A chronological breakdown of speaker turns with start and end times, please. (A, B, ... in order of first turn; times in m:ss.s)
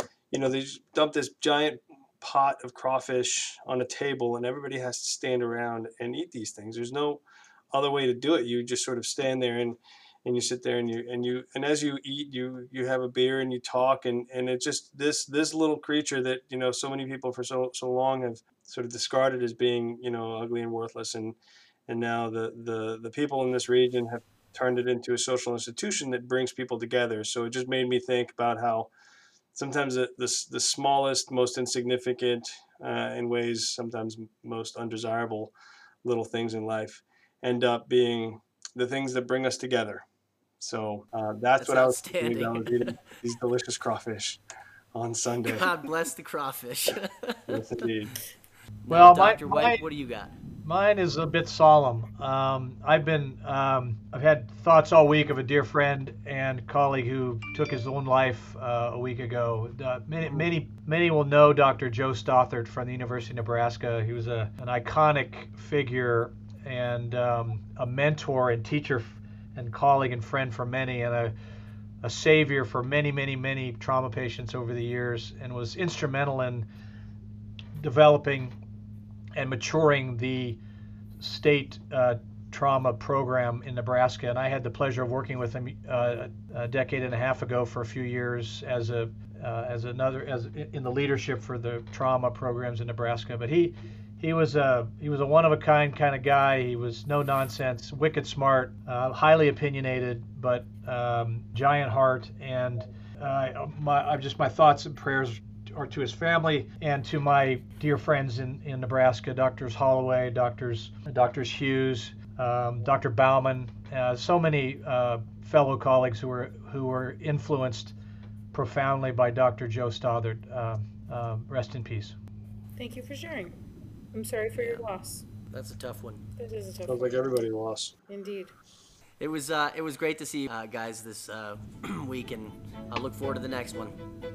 0:00.3-0:21.4 A
0:21.9-0:28.9 A
0:29.5-0:35.5 A
0:36.0-0:40.0 A
0:40.6-0:44.4 A
0:41.6-0:42.8 B
0:44.9-0:45.7 A
0:45.5-0:47.6 B
0:47.5-0:48.1 A
0:48.9-0:50.3 B
0:48.9-0:49.8 C
0:50.6-1:11.3 C
1:12.0-1:16.7 C
1:17.8-1:18.5 C
1:19.3-1:20.6 C
1:21.2-1:57.9 C
1:58.5-2:02.2 C
2:02.8-2:03.5 D
2:04.1-2:05.2 D
2:04.5-2:04.8 B
2:05.5-2:06.2 B
2:06.4-2:07.3 D
2:06.9-2:07.9 A
2:08.1-2:08.5 D
2:09.2-2:13.9 B